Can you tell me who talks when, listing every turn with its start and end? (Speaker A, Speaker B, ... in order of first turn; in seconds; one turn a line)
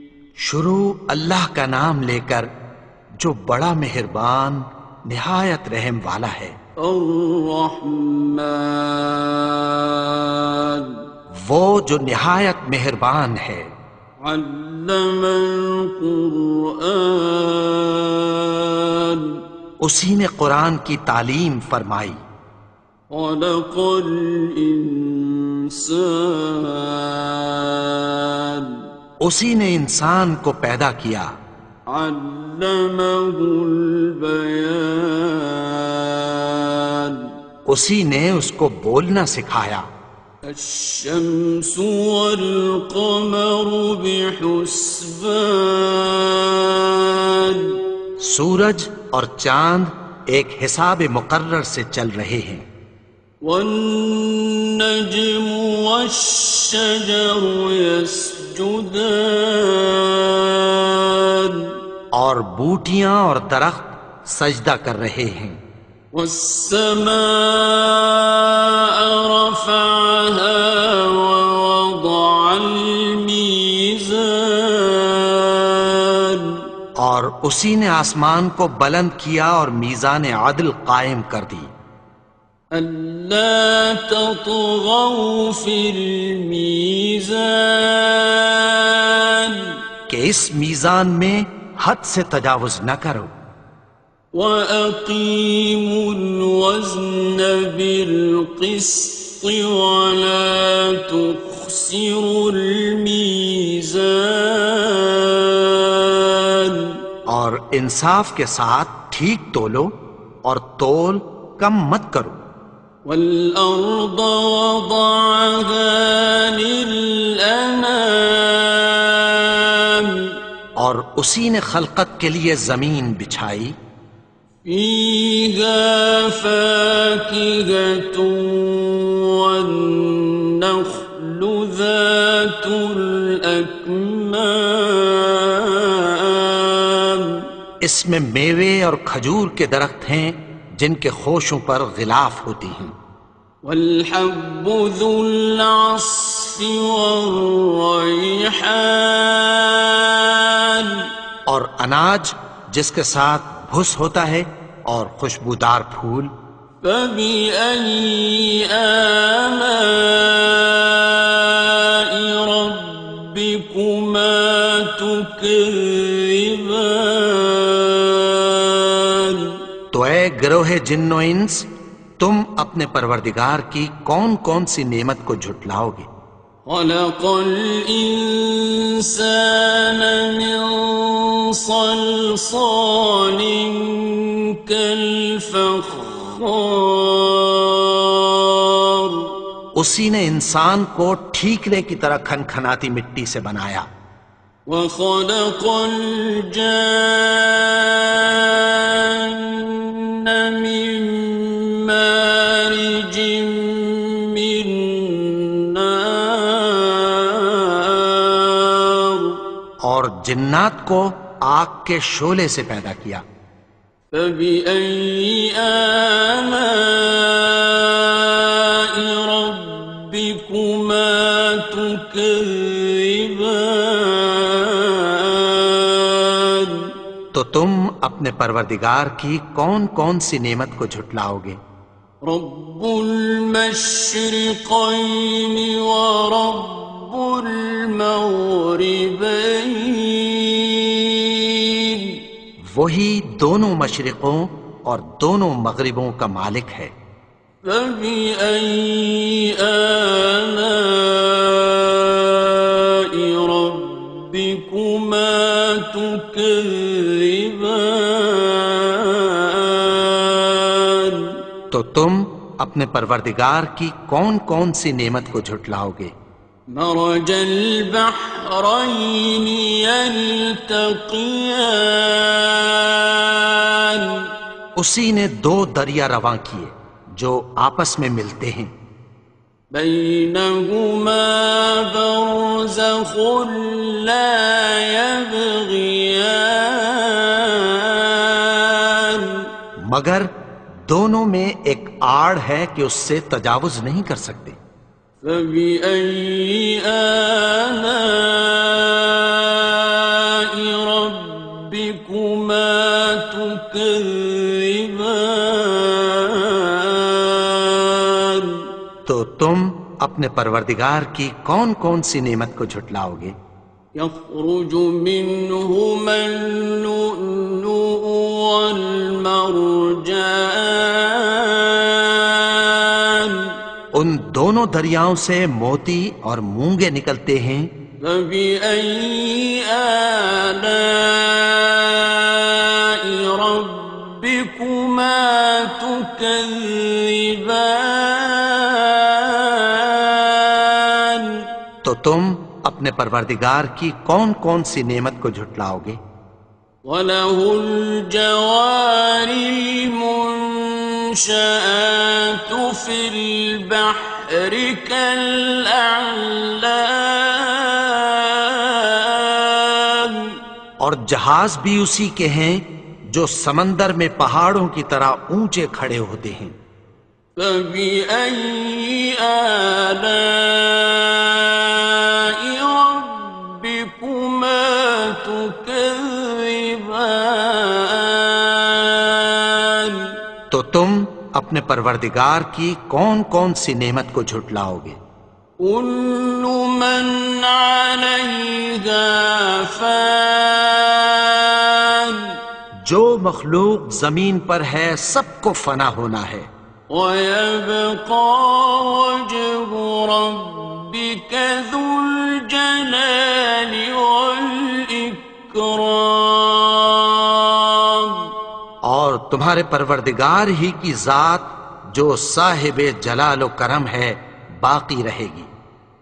Speaker A: 0.4-2.5
Speaker A: 3.2-6.5
Speaker B: 6.8-10.9
Speaker A: 11.4-13.7
Speaker B: 14.2-19.3
Speaker A: 19.8-22.2
Speaker B: 23.1-28.8
Speaker A: 29.2-31.3
Speaker B: 31.9-37.2
Speaker A: 37.6-39.8
Speaker B: 40.4-47.7
Speaker A: 48.2-52.6
Speaker B: 53.4-61.6
Speaker A: 62.1-65.6
Speaker B: 66.1-76.5
Speaker A: 77.0-81.7
Speaker B: 82.7-89.7
Speaker A: 90.1-93.3
Speaker B: 94.3-106.9
Speaker A: 107.3-109.9
Speaker A: 110.4-112.4
Speaker B: 113.0-120.3
Speaker A: 120.8-123.7
Speaker B: 124.6-137.4
Speaker A: 137.8-142.9
Speaker B: 143.6-151.1
Speaker A: 151.4-156.3
Speaker B: 156.8-169.5
Speaker A: 169.9-176.1
Speaker B: 176.7-189.3
Speaker A: 189.7-193.9
Speaker B: 194.7-209.4
Speaker A: 209.8-213.2
Speaker B: 214.1-226.9
Speaker A: 227.3-231.6
Speaker B: 232.2-242.2
Speaker A: 242.7-246.9
Speaker B: 247.6-261.3
Speaker A: 261.7-266.1
Speaker B: 266.7-274.2
Speaker A: 274.8-278.7
Speaker B: 279.7-289.4
Speaker A: 289.9-290.3
Speaker A: 290.9-294.6
Speaker B: 295.2-308.6
Speaker A: 309.1-313.3
Speaker B: 313.9-323.5
Speaker A: 323.9-327.7
Speaker B: 328.0-341.4
Speaker A: 341.8-346.0
Speaker B: 346.8-360.3
Speaker A: 360.8-366.5
Speaker B: 367.4-380.1
Speaker A: 380.5-385.0
Speaker B: 385.6-392.3
Speaker A: 392.9-396.5
Speaker B: 396.9-408.2
Speaker A: 408.8-415.5